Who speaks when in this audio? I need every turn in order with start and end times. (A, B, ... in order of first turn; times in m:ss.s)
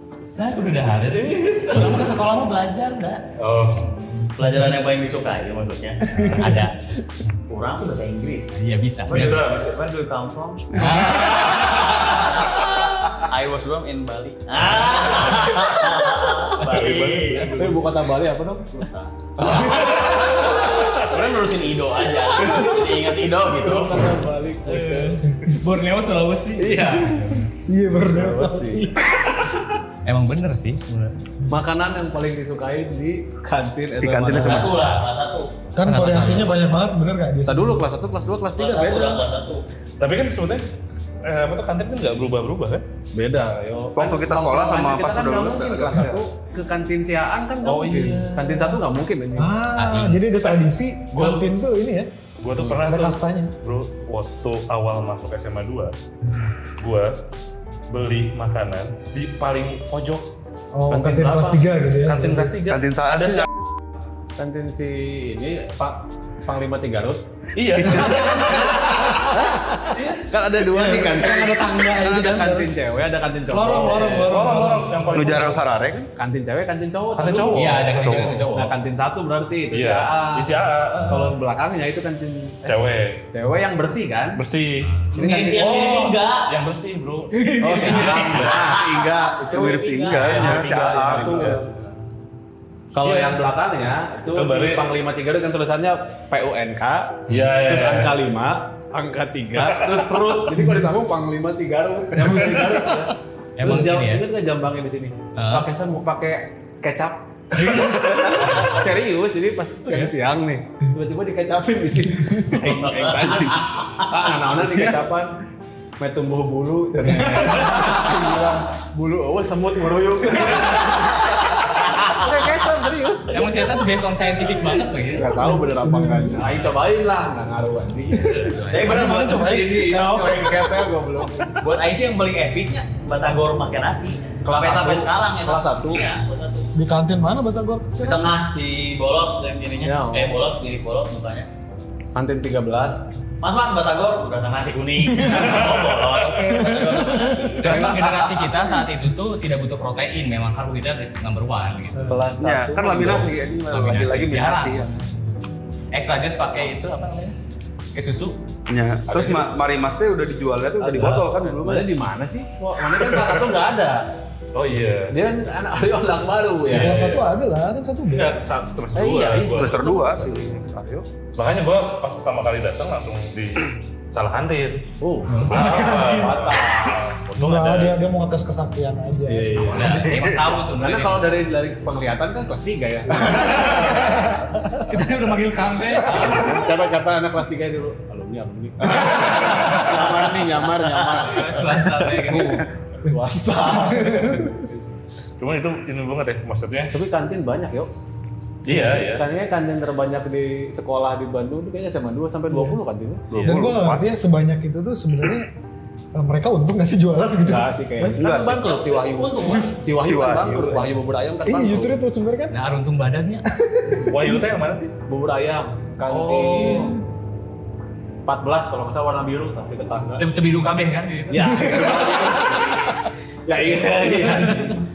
0:00.4-0:03.2 A
0:01.1-0:02.1 B
0:03.4-0:04.3 B
0:04.4-0:06.7 C
0:06.2-0:06.6 D
0:06.4-0:06.7 A
0:07.5-0:08.6 C
0:08.5-0:09.4 A
0:09.1-0:09.7 B
0:09.1-0:17.6 C
0:10.7-0:11.8 A
0:10.8-0:11.4 B
0:16.6-0:18.0 B
0:17.6-0:18.1 E
0:17.6-0:18.6 F
0:19.4-0:24.1 C
0:19.4-0:19.7 F
0:20.2-0:21.0 B
0:22.4-0:22.7 D
0:23.6-0:24.1 D
0:23.6-0:25.2 F
0:24.6-0:27.5 A
0:26.6-0:27.3 F
0:27.7-0:29.4 D
0:28.1-0:28.8 F
0:30.0-0:31.1 A
0:31.5-0:34.8 F
0:34.0-0:34.5 E
0:34.4-0:35.7 C
0:35.8-0:37.9 D
0:35.8-0:36.5 A
0:37.4-0:38.7 F
0:38.5-0:39.6 C
0:38.7-0:39.3 E
0:40.0-0:40.7 B
0:41.2-0:42.8 B
0:43.2-0:49.5 F
0:43.9-0:46.2 E
0:47.6-0:48.8 B
0:47.8-0:48.7 E
0:49.4-0:52.1 D
0:49.8-0:50.4 A
0:51.1-0:51.5 B
0:52.4-0:55.9 B
0:52.8-0:53.5 D
0:56.8-0:57.2 B
0:57.9-1:00.3 B
1:00.7-1:02.6 D
1:00.9-1:01.7 F
1:02.0-1:03.5 B
1:02.7-1:03.3 E
1:04.4-1:07.2 F
1:07.6-1:09.3 B
1:07.8-1:08.8 F
1:07.8-1:09.8 D
1:09.9-1:10.2 B
1:10.2-1:14.4 F
1:10.6-1:12.7 D
1:13.5-1:15.5 D
1:13.9-1:15.6 B
1:15.2-1:16.1 E
1:16.2-1:17.7 F
1:17.2-1:18.6 B
1:17.6-1:18.7 A
1:18.1-1:18.7 E
1:18.4-1:24.4 F
1:19.7-1:21.4 B
1:22.6-1:23.2 B
1:24.4-1:28.7 B
1:25.1-1:25.6 E
1:25.2-1:26.5 C
1:27.6-1:31.6 E
1:27.6-1:31.5 F
1:28.5-1:29.0 C
1:29.5-1:30.6 C
1:30.2-1:31.6 B
1:33.0-1:43.1 F
1:34.3-1:34.9 B
1:37.3-1:38.2 B
1:39.6-1:40.4 B
1:42.3-1:42.8 B
1:42.5-1:44.5 E
1:43.6-1:44.3 A
1:43.7-1:55.4 F
1:45.3-1:45.7 A
1:48.0-1:48.4 E
1:52.6-1:54.1 C
1:52.6-1:53.3 E
1:54.7-1:55.1 E
1:56.0-2:03.5 F
2:03.3-2:05.6 A
2:05.2-2:08.5 F
2:05.3-2:06.5 D
2:08.1-2:10.9 D
2:08.2-2:09.0 A
2:08.7-2:09.6 C
2:09.1-2:11.4 F
2:11.6-2:16.7 C
2:14.5-2:16.0 E
2:15.5-2:15.8 F
2:16.8-2:18.4 D
2:18.0-2:21.5 C
2:19.8-2:20.3 F
2:22.2-2:23.0 F
2:23.4-2:27.6 C
2:25.2-2:26.6 B
2:26.5-2:27.3 D
2:26.5-2:32.2 A
2:27.7-2:28.4 E
2:32.1-2:34.8 E
2:32.4-2:33.3 F
2:33.7-2:34.9 A
2:35.9-2:37.4 A
2:37.9-2:38.4 A
2:38.7-2:42.2 E
2:39.1-2:39.5 B
2:40.8-2:44.0 F
2:42.9-2:43.5 B
2:44.5-2:45.1 B
2:45.1-2:47.0 F
2:46.7-2:47.3 B
2:46.7-2:48.4 D
2:48.1-2:49.8 B
2:49.0-2:50.5 F
2:49.4-2:51.1 E
2:51.4-2:54.9 B
2:55.0-2:56.8 F
2:55.3-2:55.6 A
2:55.4-2:58.0 B
2:55.6-2:56.8 D
2:57.4-3:00.0 D
2:59.4-3:00.6 B
2:59.4-2:59.8 F
2:59.7-3:01.4 A
3:00.8-3:03.4 F
3:03.2-3:04.3 B
3:03.3-3:04.5 D
3:04.9-3:06.1 A
3:05.7-3:06.2 B
3:05.8-3:06.3 D
3:06.1-3:06.5 C
3:06.1-3:12.5 F
3:11.1-3:12.7 A
3:12.3-3:12.6 E
3:13.0-3:14.8 F
3:13.7-3:14.7 D
3:15.4-3:16.9 B
3:17.0-3:17.9 F
3:18.6-3:19.2 B
3:18.7-3:23.3 F
3:18.8-3:19.1 E
3:22.5-3:22.8 D
3:23.3-3:24.1 E
3:23.3-3:23.6 B
3:23.4-3:25.5 D
3:26.2-3:28.2 D
3:27.5-3:31.9 F
3:27.8-3:31.7 E
3:28.6-3:29.7 C
3:31.5-3:32.6 D
3:32.5-3:33.5 A
3:33.6-3:34.4 D
3:34.0-3:34.9 B
3:35.1-3:36.8 F
3:35.4-3:36.8 E
3:36.4-3:36.9 A
3:38.3-3:39.9 F
3:39.9-3:40.2 E
3:40.2-3:42.3 A
3:41.3-3:41.9 F
3:41.4-3:42.2 D
3:41.5-3:42.6 E
3:42.6-3:42.9 F
3:43.5-3:44.6 F
3:43.8-3:44.8 E